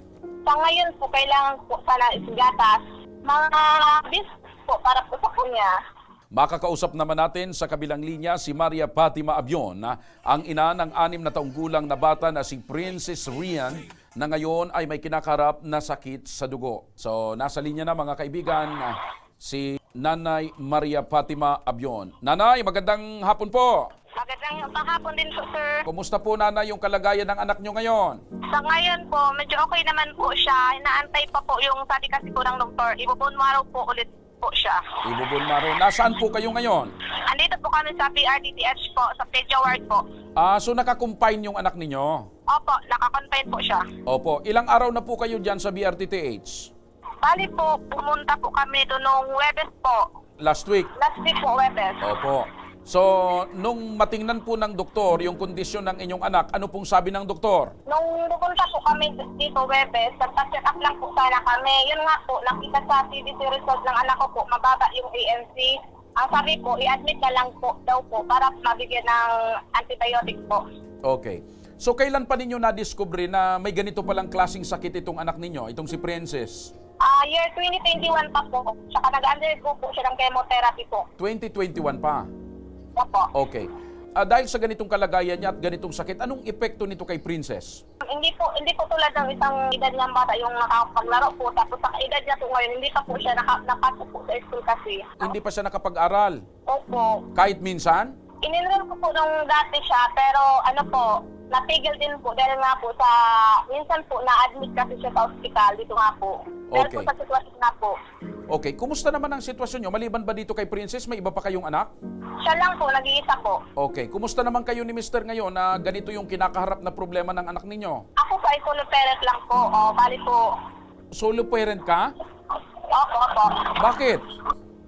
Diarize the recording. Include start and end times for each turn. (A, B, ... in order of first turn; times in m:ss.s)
0:00.4-0:05.7 A
0:06.3-0:23.9 B
0:24.2-0:25.8 A
0:25.8-0:28.2 B
0:28.5-0:34.8 A
0:35.0-0:36.9 B
0:37.3-0:40.0 A
0:40.4-0:42.2 B
0:42.5-0:43.8 A
0:44.0-0:46.7 B
0:47.2-0:50.0 A
0:50.4-0:50.9 B
0:51.0-0:52.0 A
0:52.0-0:57.7 B
0:57.9-1:10.6 A
1:11.0-1:16.7 B
1:17.0-1:21.0 A
1:21.2-1:22.2 B
1:23.0-1:23.3 A
1:23.3-1:27.8 B
1:28.0-1:35.3 A
1:35.2-1:36.4 B
1:36.7-1:37.2 A
1:37.3-1:38.1 B
1:38.4-1:48.0 A
1:46.7-1:47.1 B
1:48.5-1:51.9 B
1:52.4-1:53.6 A
1:53.8-1:58.0 B
1:58.2-2:00.4 A
2:01.1-2:02.1 B
2:02.9-2:03.7 A
2:03.8-2:04.2 B